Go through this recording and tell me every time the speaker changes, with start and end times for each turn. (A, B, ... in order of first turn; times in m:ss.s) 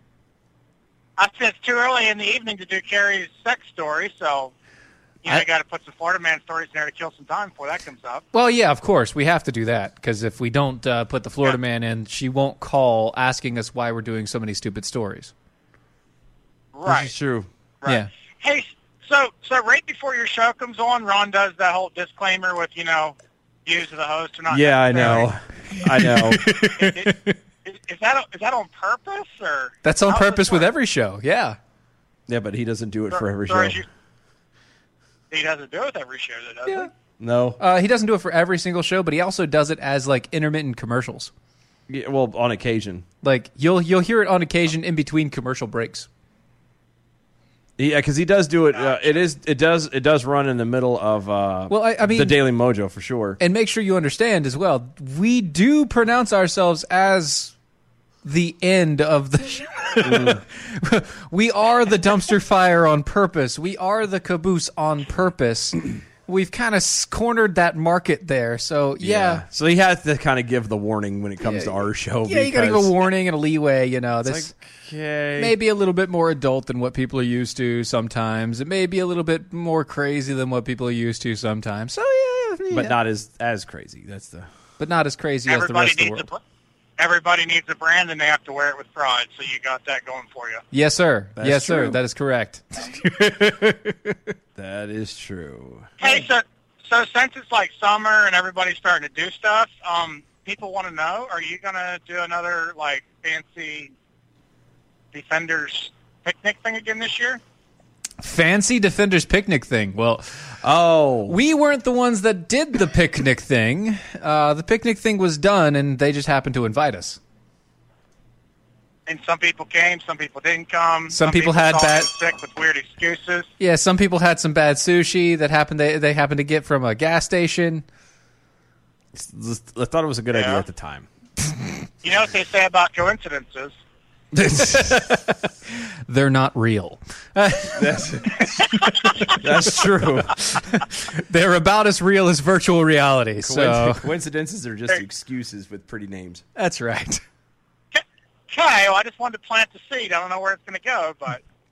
0:01.2-0:04.5 A
0:05.2-0:08.2 A
0:08.3-0:15.3 B
0:16.7-0:17.1 A
0:16.8-0:17.5 C
0:17.8-0:25.3 A
0:24.5-0:26.4 C
0:25.0-0:27.3 B
0:26.7-0:30.7 A
0:29.8-0:31.6 B
0:32.3-0:33.8 C
0:33.1-0:33.8 A
0:35.3-0:36.9 A
0:37.2-0:37.6 C
0:37.6-0:41.3 B
0:41.9-0:43.0 C
0:43.2-0:46.1 B
0:47.8-0:53.4 C
0:48.7-0:49.3 A
0:51.7-0:52.4 B
0:53.4-0:57.5 B
0:58.2-1:09.4 B
1:00.0-1:00.4 C
1:09.0-1:12.9 C
1:11.4-1:14.5 B
1:14.2-1:15.6 C
1:15.4-1:23.0 B
1:22.7-1:24.5 C
1:24.8-1:26.3 B
1:25.4-1:26.4 A
1:27.0-1:30.6 A
1:30.7-1:34.2 B
1:31.4-1:32.0 C
1:34.5-1:36.2 C
1:36.0-1:43.9 A
1:45.1-1:47.4 A
1:48.2-1:50.3 B
1:50.6-1:51.4 C
1:51.3-1:57.2 B
1:59.1-2:03.5 A
2:01.1-2:02.1 B
2:03.6-2:07.8 B
2:09.1-2:11.1 C
2:10.3-2:10.6 A
2:12.0-2:13.7 A
2:14.3-2:15.0 C
2:14.5-2:15.2 B
2:16.1-2:24.1 B
2:17.7-2:18.6 C
2:19.4-2:20.4 C
2:23.4-2:26.4 C
2:26.6-2:27.2 B
2:27.9-2:31.4 A